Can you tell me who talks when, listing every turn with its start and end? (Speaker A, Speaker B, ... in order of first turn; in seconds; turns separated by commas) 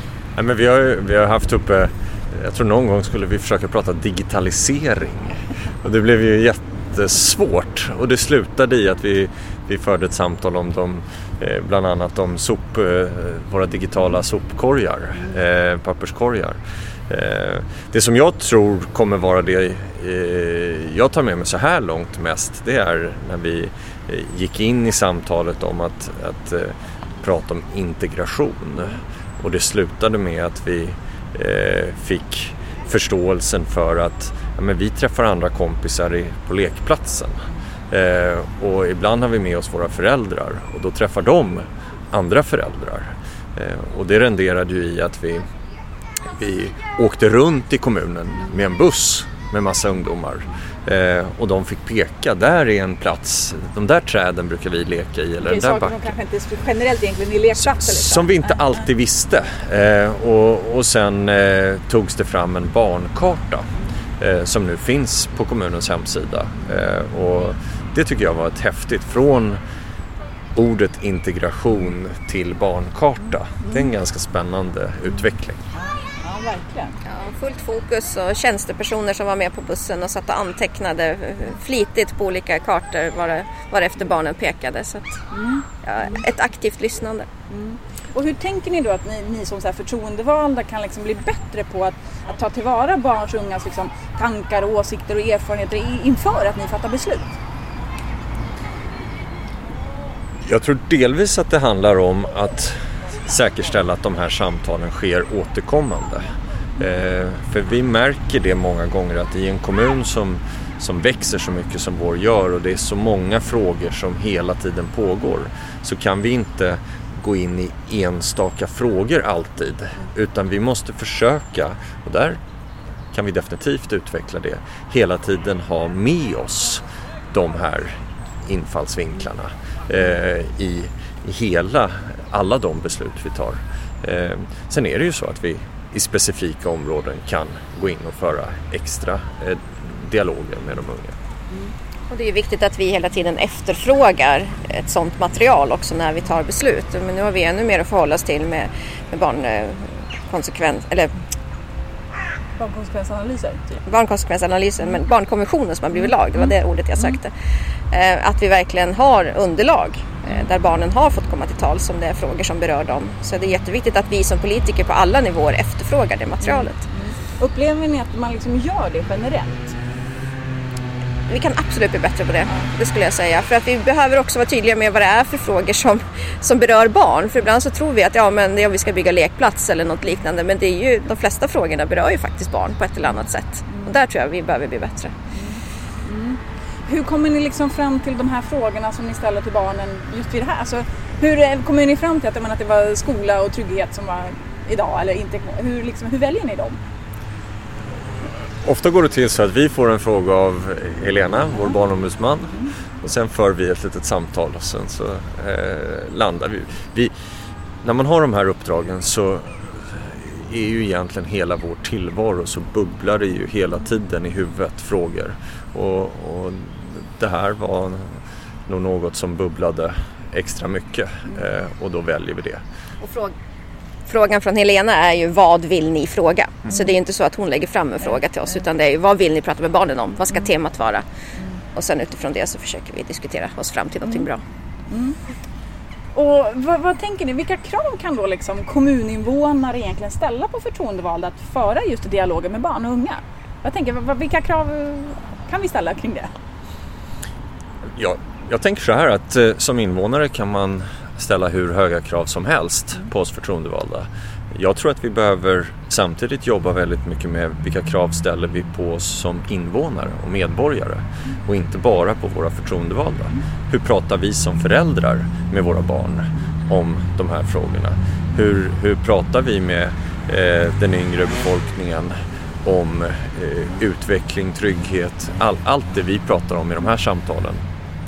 Speaker A: 0.3-45.5, Speaker A: 46.3-56.1, Speaker B: 55.4-58.9, Speaker A: 57.6-69.6, Speaker A: 70.5-75.6, Speaker B: 75.7-77.0, Speaker C: 77.0-85.3, Speaker B: 85.3-86.2, Speaker C: 85.8-87.3, Speaker B: 87.5-97.4, Speaker A: 100.5-122.4, Speaker A: 123.1-141.2, Speaker C: 142.1-151.2, Speaker B: 152.6-153.8, Speaker C: 153.8-157.3, Speaker B: 156.0-157.2, Speaker C: 157.9-166.8, Speaker B: 166.4-169.8, Speaker C: 171.3-185.2, Speaker B: 172.5-172.7, Speaker B: 183.7-184.0, Speaker B: 185.3-196.8, Speaker A: 198.6-207.1, Speaker A: 207.8-222.6, Speaker C: 223.0-223.3, Speaker C: 224.1-231.1, Speaker B: 226.7-226.9, Speaker B: 228.0-228.6, Speaker B: 231.3-231.6, Speaker C: 231.7-234.4, Speaker B: 234.9-235.2, Speaker B: 236.1-246.3, Speaker A: 248.0-277.6